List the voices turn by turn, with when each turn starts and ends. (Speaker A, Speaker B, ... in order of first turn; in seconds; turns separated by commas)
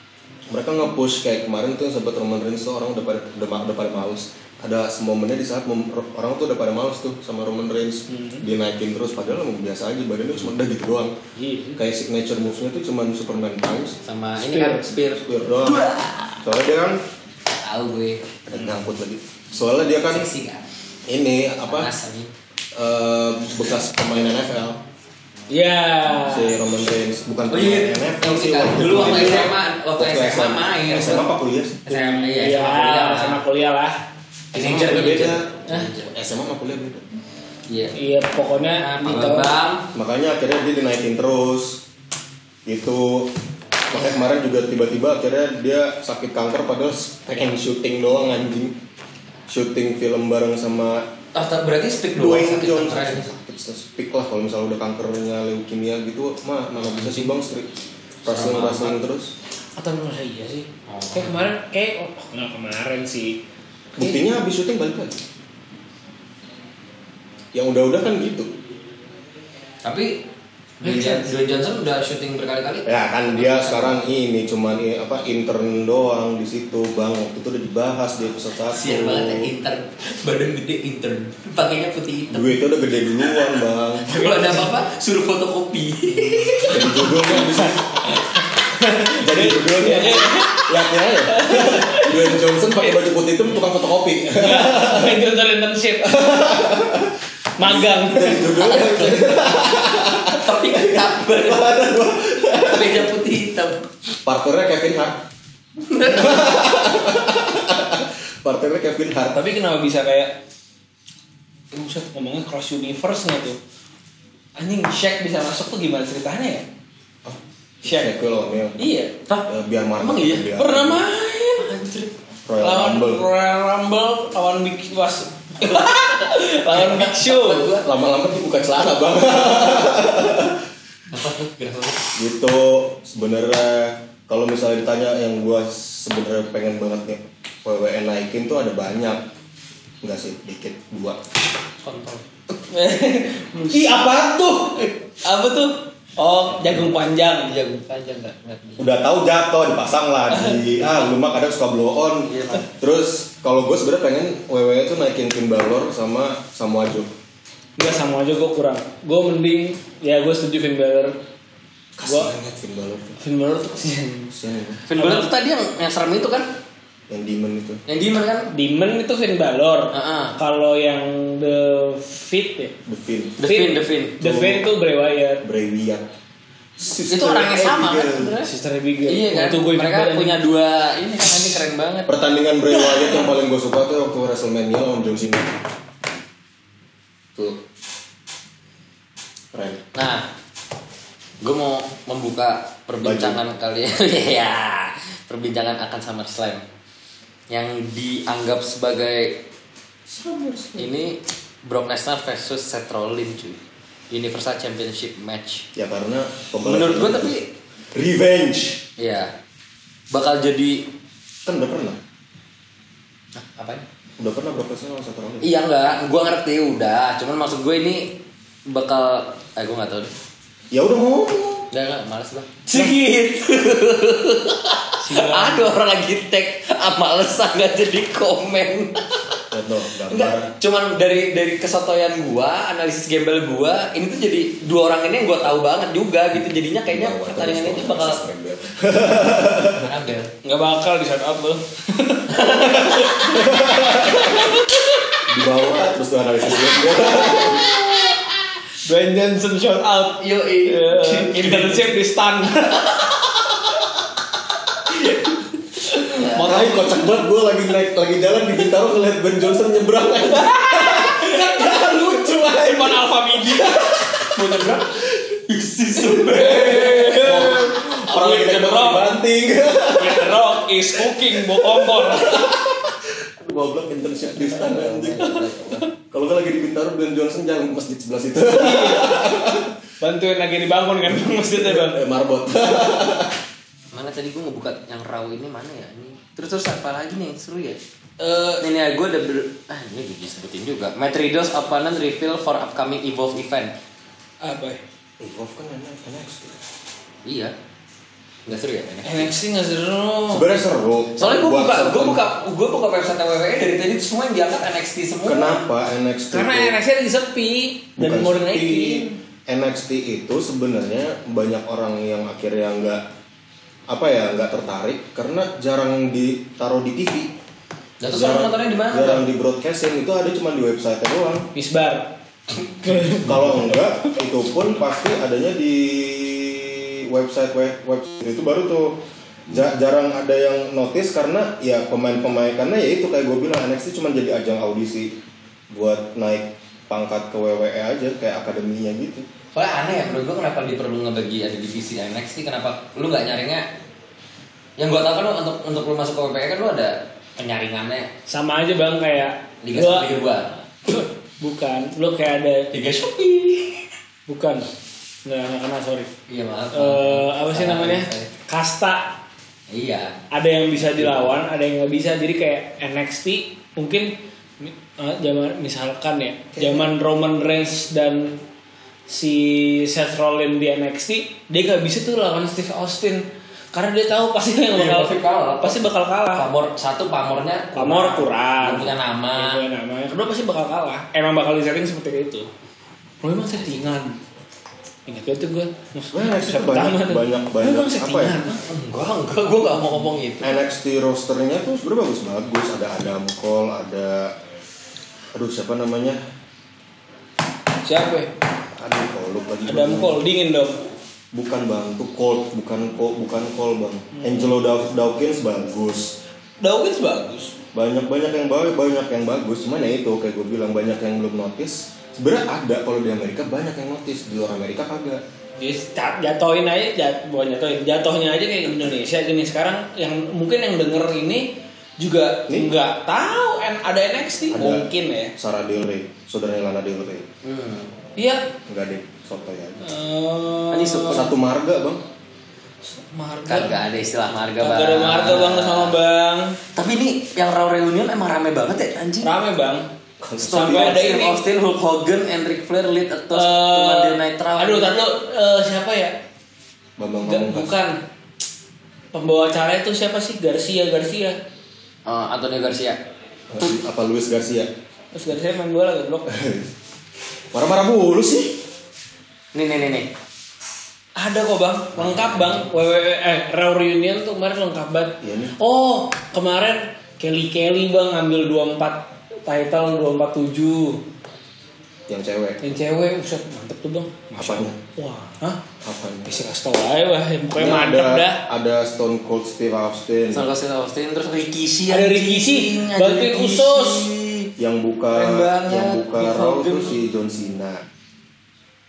Speaker A: 0.5-11.1, Speaker B: 8.1-8.4, Speaker B: 11.4-11.8, Speaker A: 11.8-14.0, Speaker C: 14.0-16.4, Speaker B: 14.4-14.8, Speaker A: 15.1-17.0, Speaker C: 17.5-18.4, Speaker A: 18.5-20.3, Speaker B: 18.6-18.8, Speaker C: 20.1-20.6, Speaker A: 21.1-21.9, Speaker C: 21.6-22.3, Speaker A: 22.7-24.8, Speaker B: 25.5-26.6, Speaker A: 26.2-31.8, Speaker C: 27.5-31.3, Speaker C: 31.9-33.4, Speaker B: 31.9-34.0, Speaker C: 34.5-36.1, Speaker A: 34.5-37.0, Speaker C: 37.7-38.0, Speaker B: 37.9-39.5, Speaker C: 38.7-39.9, Speaker A: 39.9-41.8, Speaker A: 42.7-43.3, Speaker A: 43.9-48.8, Speaker A: 49.5-51.1, Speaker C: 51.3-53.3, Speaker A: 52.1-57.7, Speaker C: 56.8-57.4, Speaker A: 58.2-59.3, Speaker C: 58.2-59.0, Speaker B: 59.8-63.4, Speaker C: 60.9-61.5, Speaker B: 64.0-64.2, Speaker A: 64.0-65.2, Speaker A: 67.5-68.5, Speaker C: 69.8-70.2, Speaker C: 70.8-74.0, Speaker B: 70.9-71.2, Speaker A: 72.9-79.5, Speaker C: 78.7-82.6, Speaker A: 82.3-84.2, Speaker C: 83.3-87.2, Speaker B: 84.1-84.6, Speaker B: 86.5-92.5, Speaker A: 86.7-88.1, Speaker A: 89.1-95.2, Speaker B: 94.3-96.6, Speaker A: 96.0-103.1, Speaker B: 97.6-98.7, Speaker C: 98.5-101.9, Speaker C: 102.5-103.9, Speaker A: 104.2-105.2, Speaker C: 105.8-106.6, Speaker A: 106.0-109.4, Speaker B: 109.3-110.4, Speaker B: 111.7-113.6, Speaker B: 114.6-116.7, Speaker A: 117.2-118.8, Speaker B: 117.8-118.1, Speaker B: 118.8-119.1, Speaker C: 119.0-119.5, Speaker A: 119.5-121.0, Speaker C: 120.0-120.5, Speaker B: 120.5-121.7, Speaker C: 121.6-122.1, Speaker A: 122.5-123.3, Speaker B: 122.6-127.7, Speaker C: 125.7-127.9, Speaker A: 127.8-130.6, Speaker C: 131.1-132.1, Speaker A: 132.2-139.3, Speaker A: 140.0-141.2, Speaker C: 141.8-142.2, Speaker B: 142.7-147.6, Speaker C: 147.4-148.9, Speaker A: 148.8-157.1, Speaker B: 150.3-150.9, Speaker C: 152.3-152.7, Speaker B: 157.8-161.2, Speaker A: 162.0-163.2, Speaker B: 162.1-162.3, Speaker B: 163.2-164.3, Speaker A: 164.3-164.8, Speaker C: 164.9-166.5, Speaker B: 164.9-165.3, Speaker A: 167.1-167.8, Speaker C: 167.9-168.5, Speaker B: 168.5-172.7, Speaker C: 169.9-170.4, Speaker A: 172.9-173.4, Speaker C: 173.4-174.2, Speaker B: 173.4-175.4, Speaker A: 174.2-174.7, Speaker A: 175.4-176.1, Speaker A: 176.8-178.4, Speaker C: 177.1-178.5, Speaker B: 178.4-180.4, Speaker C: 179.1-182.1, Speaker A: 182.1-185.6, Speaker A: 187.3-187.6, Speaker A: 189.5-189.8, Speaker C: 189.9-190.3, Speaker C: 191.4-196.6, Speaker A: 193.0-193.4, Speaker C: 197.5-199.4, Speaker A: 200.1-200.9, Speaker C: 200.8-205.7, Speaker A: 205.8-207.4, Speaker C: 206.6-207.5, Speaker A: 207.9-208.8, Speaker C: 209.0-209.3, Speaker C: 210.1-210.9, Speaker A: 211.4-212.0, Speaker C: 213.4-213.8, Speaker A: 214.2-215.5, Speaker C: 215.4-220.1, Speaker A: 220.7-221.7, Speaker C: 221.7-229.4, Speaker B: 225.0-225.7, Speaker A: 229.5-230.5, Speaker C: 230.1-238.2, Speaker A: 236.9-239.9, Speaker C: 239.7-240.3, Speaker B: 240.4-245.2, Speaker C: 242.3-243.4, Speaker A: 243.2-244.6, Speaker A: 245.3-247.8, Speaker C: 247.4-248.1, Speaker B: 248.8-253.1, Speaker C: 250.2-252.0, Speaker C: 252.9-253.2, Speaker B: 255.9-256.7, Speaker C: 255.9-256.8, Speaker A: 256.3-264.8, Speaker B: 260.4-263.7, Speaker C: 263.9-267.7, Speaker A: 265.9-279.7, Speaker B: 266.2-269.1, Speaker B: 269.8-272.5, Speaker C: 274.6-275.8, Speaker B: 278.4-279.3, Speaker B: 280.0-282.0, Speaker A: 281.1-283.4, Speaker C: 283.9-287.8, Speaker B: 288.2-288.6, Speaker C: 288.6-293.8, Speaker B: 294.4-294.8, Speaker A: 295.2-296.6, Speaker C: 297.2-297.5, Speaker C: 298.5-299.3, Speaker B: 299.1-300.6, Speaker A: 300.3-302.2, Speaker C: 301.2-305.7, Speaker A: 305.2-306.8, Speaker B: 306.3-309.2, Speaker A: 308.0-313.0, Speaker A: 313.9-317.3, Speaker C: 318.0-319.2, Speaker A: 318.1-321.5, Speaker B: 321.6-323.7, Speaker A: 323.1-335.2, Speaker A: 335.7-339.3, Speaker C: 339.5-343.7, Speaker C: 344.8-348.1, Speaker B: 348.3-350.1, Speaker C: 349.6-350.6, Speaker B: 350.9-352.7, Speaker C: 352.7-353.9, Speaker B: 354.3-354.7, Speaker B: 355.3-356.1, Speaker C: 356.3-358.3, Speaker B: 356.7-359.2, Speaker C: 359.7-360.2, Speaker B: 360.3-368.4, Speaker A: 366.6-366.9, Speaker B: 369.1-376.5, Speaker C: 374.7-379.7, Speaker B: 377.8-382.5, Speaker B: 383.2-384.2, Speaker B: 385.1-388.6, Speaker A: 386.1-388.4, Speaker C: 388.6-390.6, Speaker A: 390.4-394.3, Speaker A: 395.3-396.2, Speaker B: 397.8-398.3, Speaker A: 398.8-400.2, Speaker B: 399.6-400.8, Speaker A: 401.3-406.2, Speaker B: 406.6-407.5, Speaker A: 407.7-415.2, Speaker B: 415.6-425.3, Speaker A: 422.5-422.7, Speaker A: 424.5-427.3, Speaker C: 427.4-427.9, Speaker B: 428.2-428.5, Speaker A: 428.7-429.9, Speaker B: 429.8-431.3, Speaker C: 430.7-431.3, Speaker A: 431.1-432.0, Speaker B: 432.9-433.9, Speaker C: 433.5-436.0, Speaker B: 434.6-436.6, Speaker C: 436.8-439.3, Speaker B: 439.2-439.9, Speaker A: 440.2-441.1, Speaker B: 440.4-441.4, Speaker C: 440.4-445.0, Speaker B: 443.3-446.2, Speaker A: 447.0-447.8, Speaker B: 447.2-448.0, Speaker B: 449.1-451.4, Speaker C: 452.1-453.0, Speaker A: 453.5-454.7, Speaker B: 455.1-456.3, Speaker A: 456.3-456.7, Speaker A: 457.5-458.6, Speaker C: 459.5-460.1, Speaker B: 461.2-471.0, Speaker C: 462.0-462.7, Speaker A: 465.2-465.5, Speaker A: 472.1-472.6, Speaker B: 472.6-475.6, Speaker A: 474.4-474.8, Speaker A: 475.8-476.3, Speaker B: 476.2-478.4, Speaker A: 477.6-480.5, Speaker C: 480.3-484.5, Speaker B: 481.9-484.1, Speaker A: 484.6-487.8, Speaker C: 485.1-487.0